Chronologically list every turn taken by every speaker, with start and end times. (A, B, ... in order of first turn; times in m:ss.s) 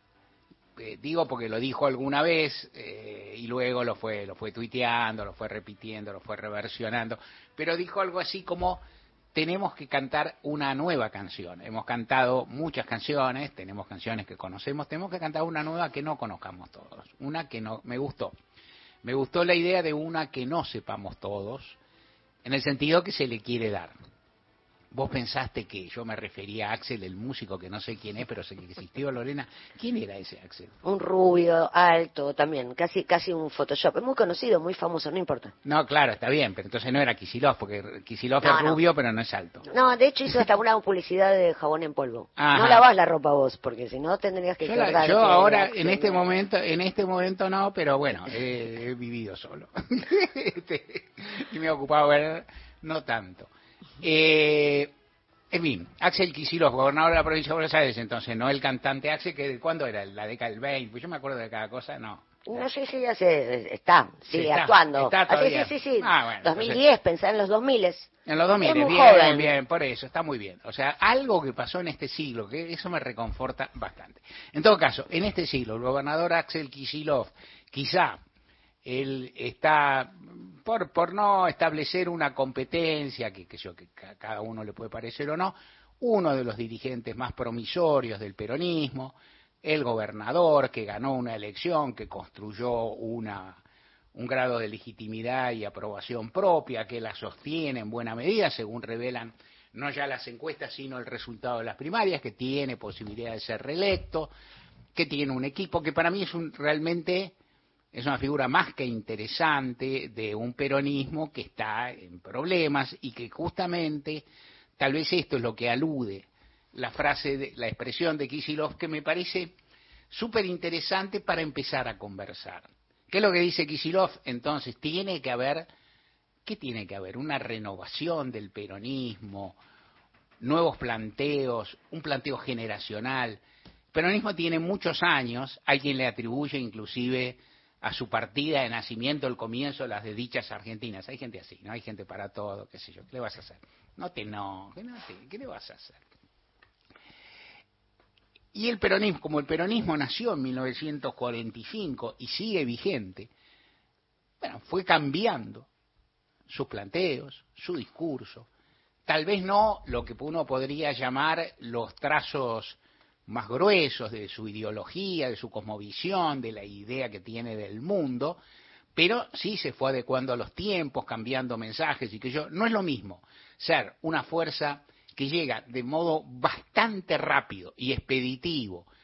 0:00.8-0:08.8 A
0:09.3-0:18.4 A
0:19.0-0:21.8 A
0:22.4-0:24.0 A
0:24.9-0:30.8 A
0:30.8-0:35.5 B
0:35.6-0:39.7 A
0:38.4-0:38.8 B
0:39.7-0:46.3 B
0:42.4-0:42.9 A
0:44.6-0:53.5 A
0:54.0-0:54.9 A
0:55.5-1:02.6 A
1:02.5-1:09.5 B
1:04.3-1:06.8 A
1:08.3-1:18.2 A
1:18.8-1:33.6 A
1:34.2-1:44.3 A
1:45.0-1:47.3 A
1:47.9-1:54.2 A
1:54.8-1:59.5 A
2:00.1-2:05.7 A
2:06.4-2:09.6 A
2:10.4-2:13.4 A
2:13.9-2:26.0 A
2:28.5-2:33.3 A
2:34.4-2:35.7 A
2:36.5-2:38.5 A
2:39.1-2:48.4 A
2:49.0-2:58.9 A